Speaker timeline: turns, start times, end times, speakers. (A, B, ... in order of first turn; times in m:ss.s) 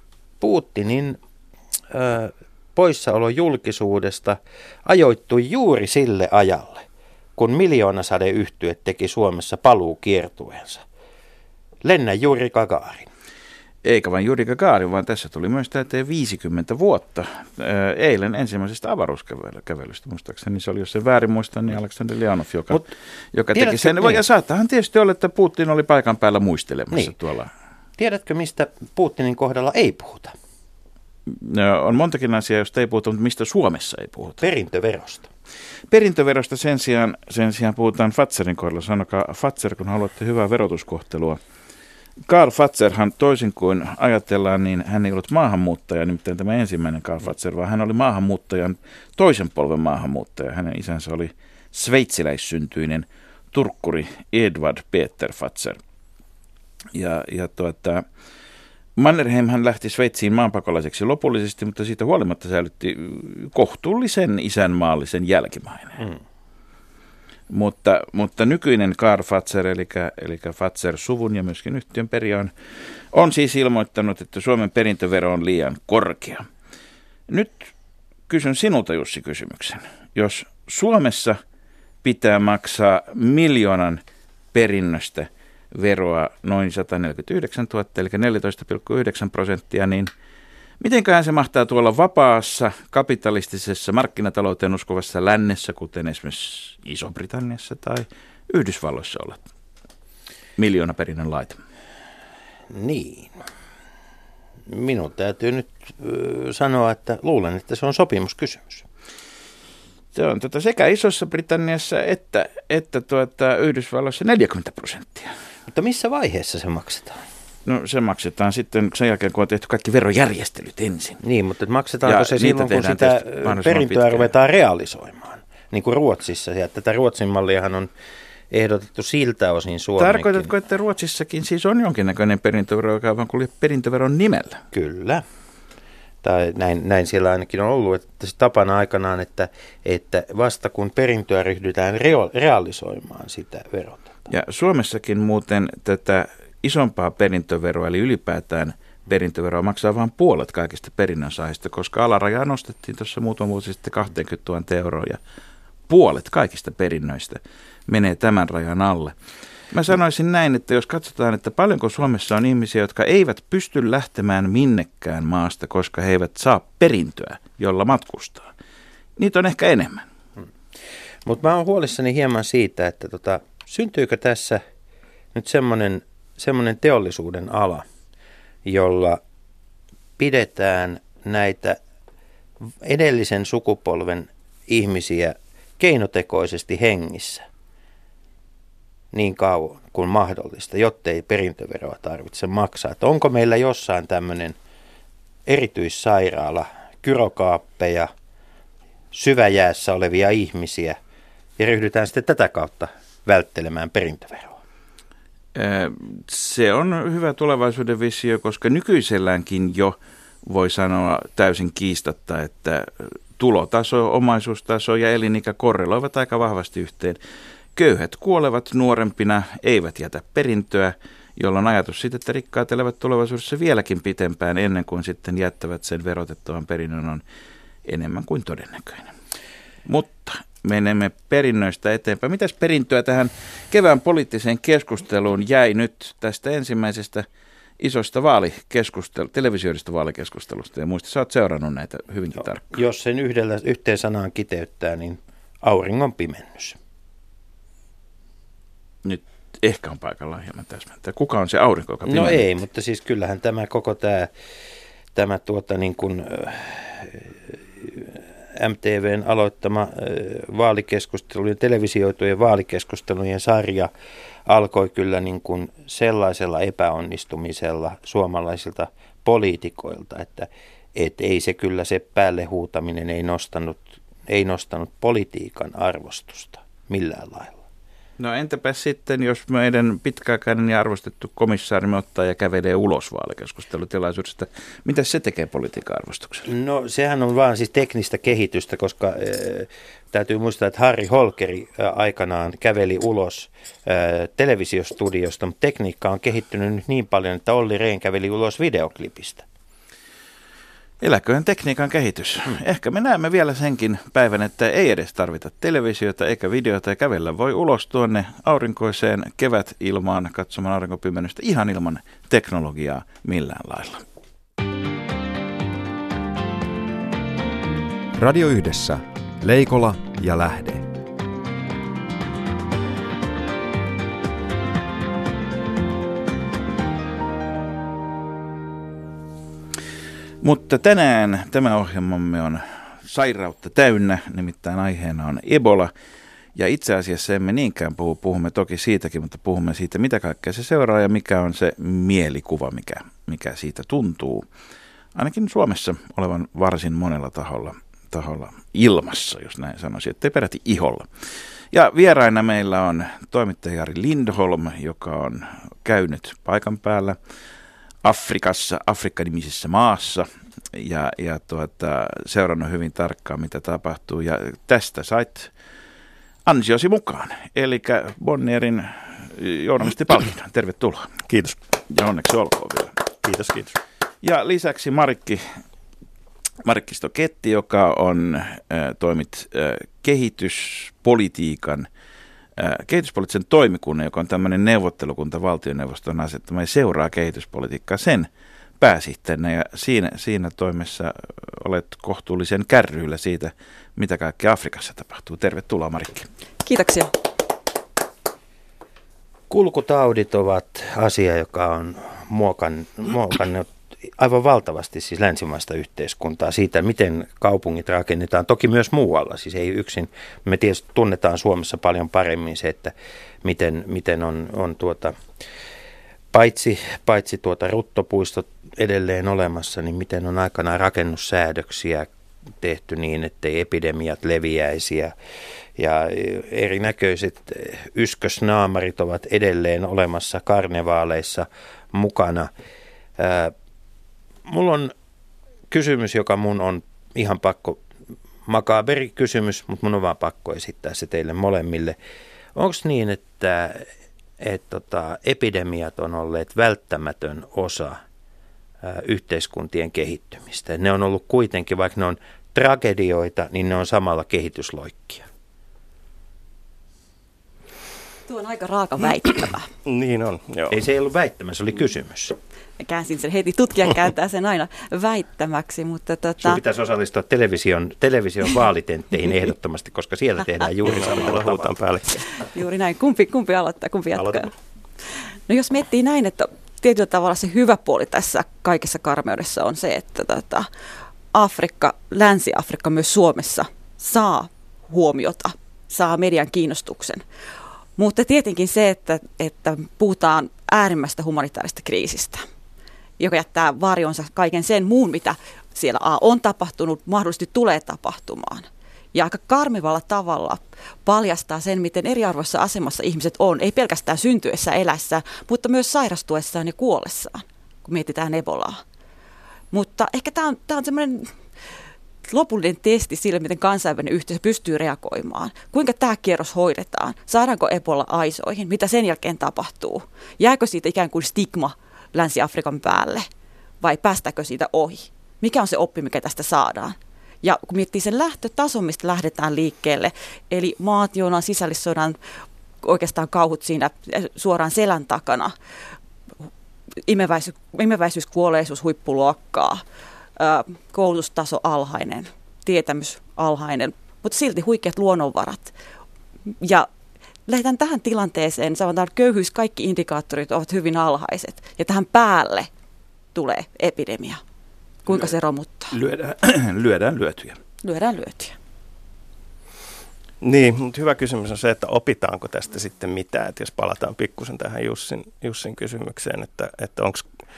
0:00.4-0:01.2 A
0:01.9-0:06.8 A
0:07.4-0:10.8 A
0:11.8-0:13.1 A
0:13.8-0:27.5 B
0:23.5-0:24.2 A
0:28.0-0:30.4 A
0:31.3-0:34.4 B
0:34.4-0:35.3 A
0:35.9-0:41.4 B
0:42.3-0:55.8 B
0:56.9-0:58.0 B
0:59.0-1:06.1 B
1:07.5-1:12.5 B
1:13.1-1:16.5 B
1:17.3-1:17.7 B
1:18.3-1:21.4 B
1:22.0-1:24.0 B
1:24.5-1:30.1 B
1:30.8-1:39.4 B
1:40.6-1:41.6 B
1:42.7-1:43.4 A
1:44.7-1:48.9 A
1:50.2-1:55.3 B
1:55.7-1:57.2 A
1:57.7-2:01.2 B
2:01.2-2:07.9 A
2:02.0-2:04.3 B
2:08.5-2:10.5 A
2:10.0-2:14.6 B
2:14.7-2:15.2 A
2:16.2-2:24.2 A
2:24.3-2:35.2 B
2:35.9-2:39.2 B
2:39.7-2:48.5 B
2:49.2-2:50.0 B
2:51.2-2:54.6 A
2:55.3-2:57.9 A
2:58.6-2:59.2 A
3:00.2-3:01.8 A
3:02.7-3:07.5 A
3:09.1-3:14.6 A
3:15.5-3:18.1 A
3:19.1-3:21.0 A
3:21.6-3:24.6 A
3:25.6-3:37.2 B
3:37.8-3:47.2 B
3:47.8-3:49.1 B
3:49.9-3:57.3 B
3:57.8-4:02.8 B
4:02.7-4:06.8 A
4:09.0-4:12.5 B
4:12.1-4:14.3 A
4:15.2-4:23.9 A
4:24.5-4:37.6 A
4:38.2-4:46.5 B
4:46.5-4:59.4 A
5:01.0-5:14.0 B
5:18.2-5:20.9 C
5:30.4-5:35.9 B
5:36.6-5:44.4 B
5:45.2-5:51.1 B
5:51.7-5:57.2 B
5:58.0-6:05.5 B
6:06.5-6:11.1 B
6:11.3-6:11.6 D
6:11.9-6:13.0 B
6:13.2-6:13.8 D
6:14.2-6:15.4 B
6:16.6-6:21.9 B
6:22.6-6:28.3 B
6:28.8-6:36.3 B
6:36.6-6:37.1 E
6:39.5-6:55.2 A
6:56.3-7:02.1 A
7:02.6-7:05.1 A
7:05.8-7:12.5 A
7:13.2-7:13.5 A
7:14.5-7:14.9 A
7:15.7-7:17.8 A
7:18.5-7:22.0 A
7:22.6-7:23.9 A
7:24.4-7:28.0 A
7:28.8-7:35.3 A
7:38.3-7:39.7 E
7:39.9-7:40.8 D
7:40.7-7:42.4 A
7:42.8-7:46.6 E
7:46.4-7:51.7 A
7:50.8-7:52.2 D
7:52.3-7:54.5 E
7:55.5-8:00.7 E
8:01.3-8:07.2 E
8:08.0-8:12.5 E
8:13.2-8:28.8 E
8:29.7-8:31.3 E
8:32.3-8:43.3 E
8:43.8-8:52.2 E
8:52.8-8:55.5 E
8:57.1-8:59.8 E
9:00.4-9:05.7 E
9:06.6-9:06.9 E
9:07.5-9:12.7 E
9:13.4-9:14.4 E
9:15.1-9:16.0 E
9:15.9-9:17.6 B
9:17.8-9:18.6 E
9:20.4-9:27.2 D